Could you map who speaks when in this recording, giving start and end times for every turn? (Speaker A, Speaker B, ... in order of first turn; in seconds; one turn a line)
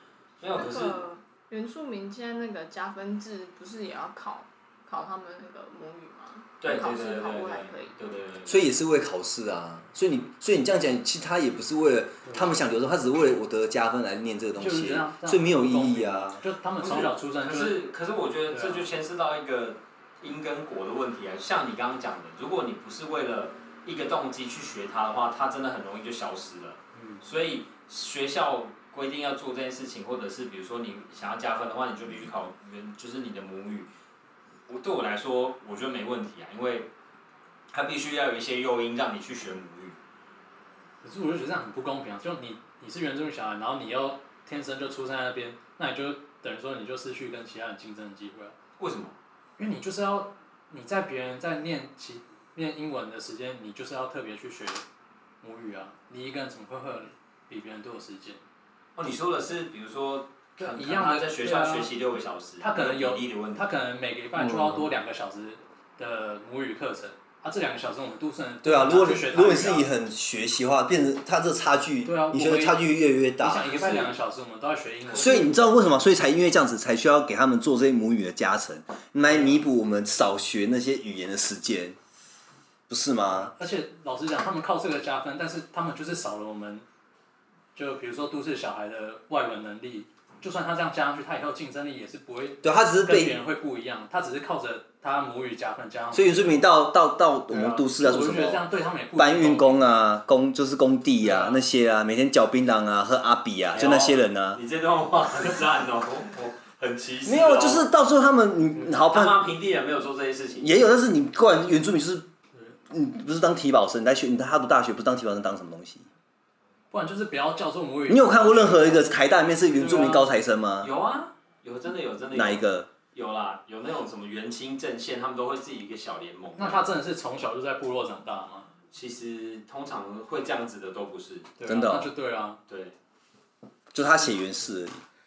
Speaker A: 0.4-1.0
Speaker B: 0.5-8.0
Speaker A: 6.6-8.7
Speaker C: 8.5-16.4
Speaker D: 14.6-17.8
Speaker A: 16.8-33.9
Speaker D: 18.5-18.9
Speaker D: 26.9-27.2
Speaker A: 34.7-36.9
Speaker A: 37.7-40.0
Speaker D: 41.0-48.5
Speaker A: 48.8-49.1
Speaker D: 49.6-54.9
Speaker D: 55.4-58.4
Speaker A: 59.0-63.6
Speaker D: 60.6-61.9
Speaker D: 62.6-69.9
Speaker C: 64.4-64.9
Speaker C: 68.6-73.9
Speaker D: 72.0-72.8
Speaker D: 73.4-75.6
Speaker C: 75.1-82.0
Speaker D: 79.3-79.6
Speaker C: 82.9-83.5
Speaker D: 83.3-86.8
Speaker D: 87.8-96.6
Speaker C: 92.6-93.4
Speaker C: 96.1-104.6
Speaker D: 97.5-99.8
Speaker D: 101.2-101.6
Speaker A: 103.7-107.9
Speaker C: 107.3-109.5
Speaker A: 108.9-110.8
Speaker C: 110.6-112.3
Speaker C: 112.9-116.1
Speaker D: 116.9-119.2
Speaker C: 118.1-120.9
Speaker D: 119.7-120.3
Speaker A: 120.8-126.9
Speaker C: 122.3-122.9
Speaker D: 126.6-128.7
Speaker A: 128.9-131.5
Speaker D: 131.6-132.6
Speaker C: 131.7-132.1
Speaker A: 132.7-132.9
Speaker C: 133.9-135.0